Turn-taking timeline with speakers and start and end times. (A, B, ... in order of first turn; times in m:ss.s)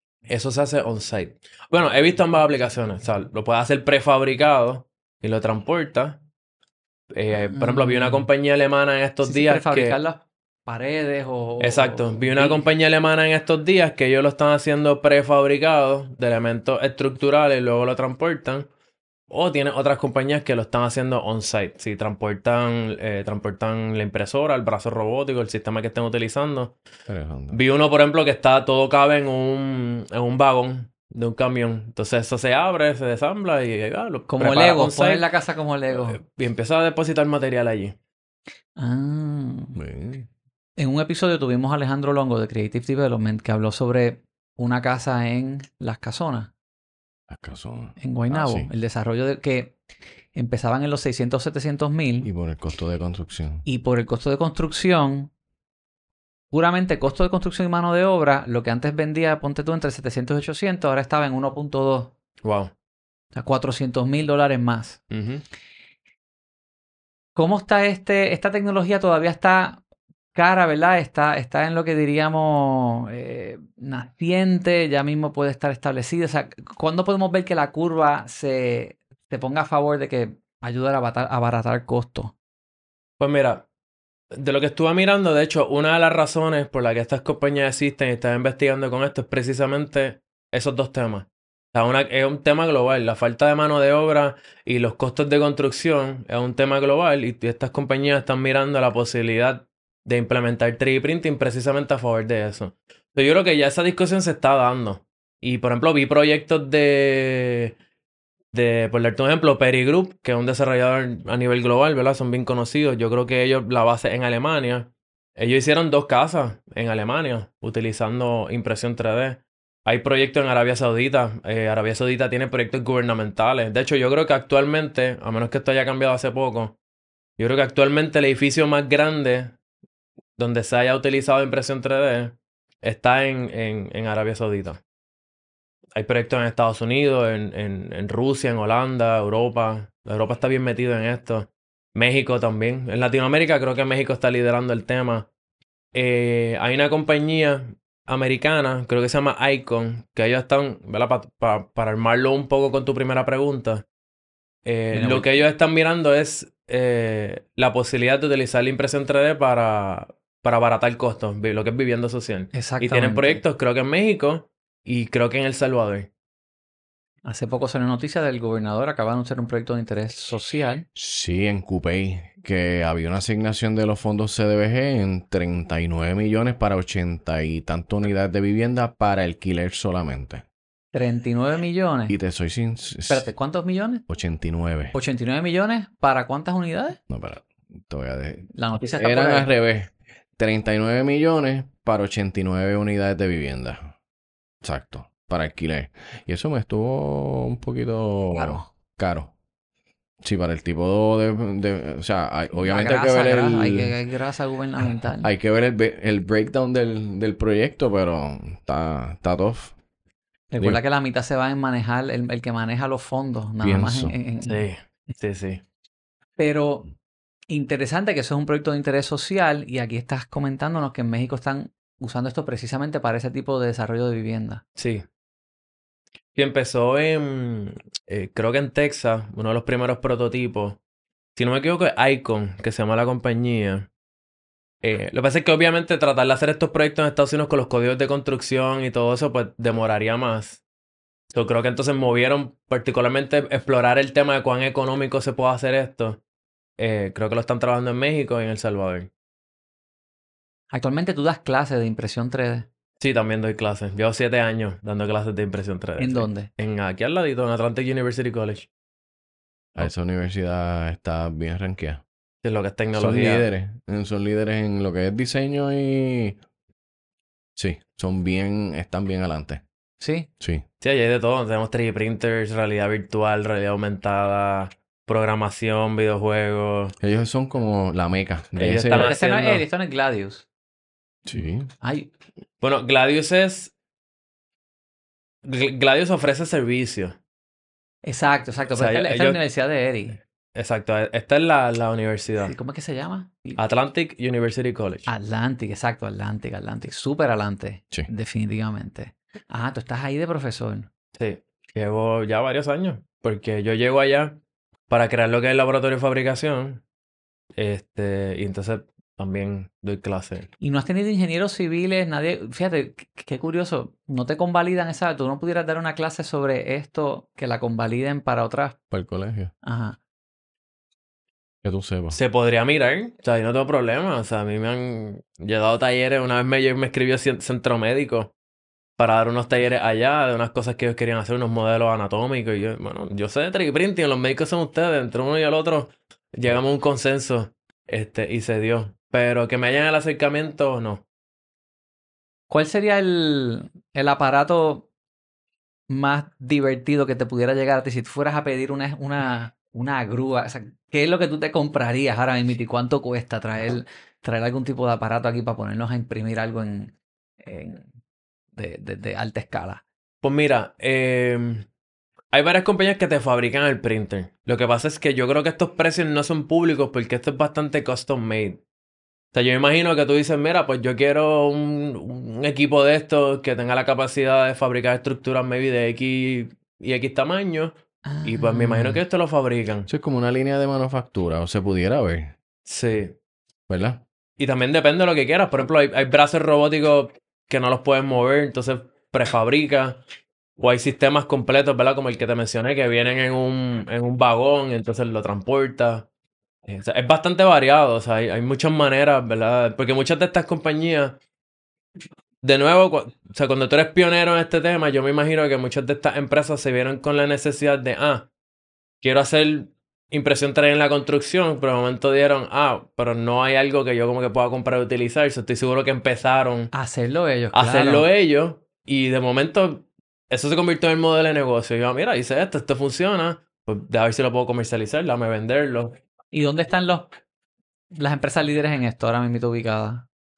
0:00.3-0:06.2 A
0:07.1-0:10.0 A
0:07.3-0:08.3 B
0:09.2-0:12.6 B
0:11.6-0:18.7 A
0:19.3-0:26.8 A
0:27.1-0:27.6 C
0:27.5-0:35.2 A
0:34.3-0:36.2 B
0:35.9-0:37.9 A
0:38.8-0:39.8 B
0:39.8-0:40.3 C
0:40.8-0:46.5 B
0:47.3-0:48.7 C
0:48.0-0:49.8 B
0:50.3-0:52.3 B
0:52.2-0:53.6 C
0:53.6-0:55.3 B
0:56.5-1:02.1 B
1:02.4-1:02.7 A
1:03.3-1:05.0 B
1:05.1-1:05.4 A
1:07.4-1:09.8 B
1:10.3-1:22.3 B
1:23.2-1:23.6 A
1:24.4-1:47.8 A
1:48.5-2:06.8 A
2:07.4-2:09.5 A
2:10.4-2:14.8 A
2:16.0-2:25.3 A
2:25.9-2:33.8 A
2:34.6-2:46.1 A
2:34.9-2:35.5 B
2:42.5-2:43.4 B
2:47.2-2:50.8 B
2:50.9-3:00.4 C
3:00.9-3:02.2 B
3:02.1-3:03.3 C
3:03.1-3:04.0 B
3:04.1-3:04.9 C
3:04.9-3:07.0 B
3:07.1-3:13.9 C
3:08.5-3:09.5 B
3:14.6-3:19.3 C
3:18.3-3:18.7 B
3:20.2-3:24.0 C
3:22.6-3:25.3 B
3:25.2-3:29.7 C
3:30.5-3:34.7 B
3:33.6-3:34.2 C
3:34.4-3:35.6 A
3:36.4-3:36.9 B
3:37.5-3:44.6 B
3:44.8-3:45.0 A
3:46.3-3:50.8 A
3:51.4-3:53.9 A
3:54.8-4:00.6 A
4:01.3-4:06.2 A
4:06.8-4:09.1 A
4:10.7-4:12.7 B
4:13.0-4:18.7 A
4:16.0-4:16.5 B
4:19.7-4:22.0 C
4:22.4-4:23.5 A
4:22.9-4:26.4 C
4:27.6-4:29.6 C
4:30.0-4:30.3 B
4:30.8-4:37.0 A
4:37.0-4:39.2 C
4:38.6-4:39.6 A
4:38.9-4:40.4 B
4:41.2-4:41.7 C
4:41.3-4:42.1 B
4:42.6-4:43.7 A
4:45.4-4:47.2 A
4:48.0-4:50.2 B
4:48.7-4:49.4 A
4:50.5-4:52.5 A
4:52.4-4:53.6 B
4:53.6-4:55.1 A
4:55.1-5:00.9 B
5:01.2-5:06.8 A
5:07.6-5:10.5 A
5:10.6-5:18.8 B
5:18.9-5:19.5 C
5:19.6-5:20.0 B
5:21.6-5:22.2 C
5:22.1-5:28.3 A
5:29.0-5:41.0 A
5:42.5-5:44.9 B
5:45.9-5:57.9 B
5:58.5-5:59.8 B
6:00.2-6:01.6 A
6:02.3-6:08.6 A
6:09.3-6:19.9 A
6:18.0-6:19.0 B
6:19.9-6:22.3 C
6:22.6-6:23.2 A
6:23.7-6:24.0 C
6:24.4-6:30.0 A
6:30.6-6:36.1 A
6:36.6-6:41.2 A
6:42.4-6:48.3 A
6:49.0-6:56.7 A
6:56.7-6:58.1 B
6:57.5-7:06.0 A
7:06.3-7:07.1 B
7:08.0-7:10.0 B